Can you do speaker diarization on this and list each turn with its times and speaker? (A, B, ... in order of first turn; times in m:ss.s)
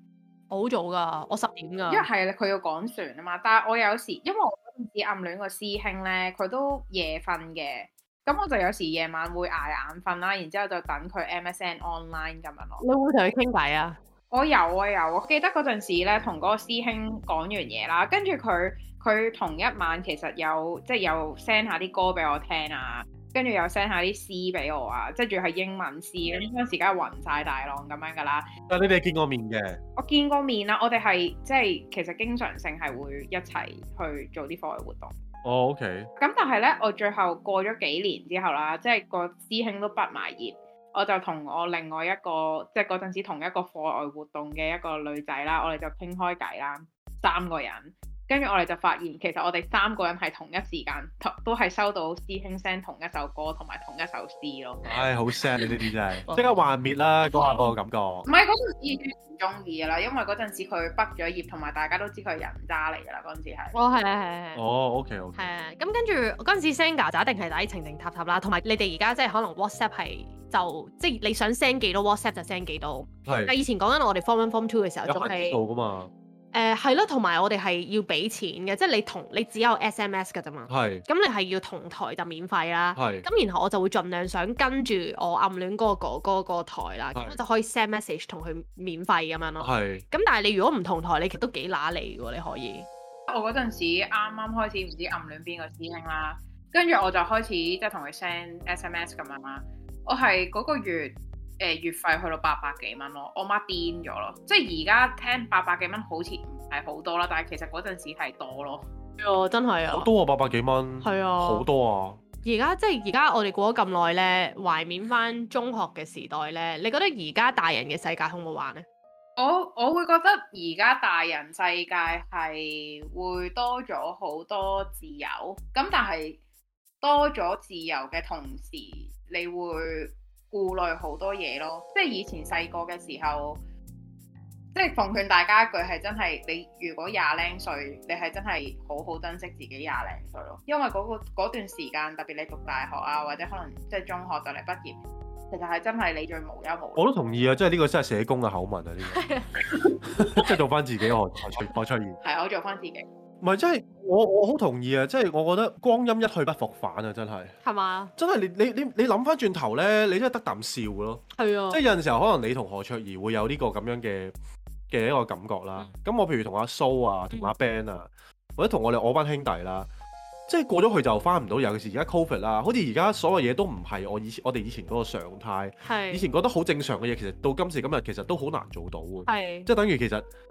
0:00.5-0:02.1 A
0:01.9-0:12.8 B
0:12.8-0:14.0 A
0:14.3-0:28.5 B
0:28.7-0:29.8 C
0:30.0-0:35.1 B
0:35.4-0:36.1 C
0:36.2-0:55.0 B
0:54.8-0:58.3 C
0:57.3-0:57.6 A
0:58.2-1:03.8 B
1:03.7-1:04.6 A
1:04.5-1:05.4 C
1:05.4-1:15.6 A
1:13.2-1:13.5 C
1:15.0-1:16.1 C
1:16.5-1:32.9 A
1:20.7-1:21.0 C
1:22.9-1:23.2 C
1:29.6-1:30.0 C
1:33.3-1:48.8 B
1:49.2-1:50.1 A
1:49.9-1:52.2 C
1:51.0-1:51.6 A
1:52.4-1:58.8 A
1:59.4-2:06.4 B
2:07.0-2:13.6 B
2:14.7-2:25.0 B
2:25.5-2:27.0 B
2:27.0-2:29.2 C
2:29.1-2:29.7 A
2:30.0-2:32.2 C
2:32.2-2:33.0 B
2:33.4-2:37.6 C
2:37.6-2:38.1 A
2:38.2-2:44.3 C
2:41.3-2:41.8 A
2:44.9-2:49.9 C
2:50.5-3:00.2 C
2:55.8-2:56.2 A
2:59.3-2:59.7 A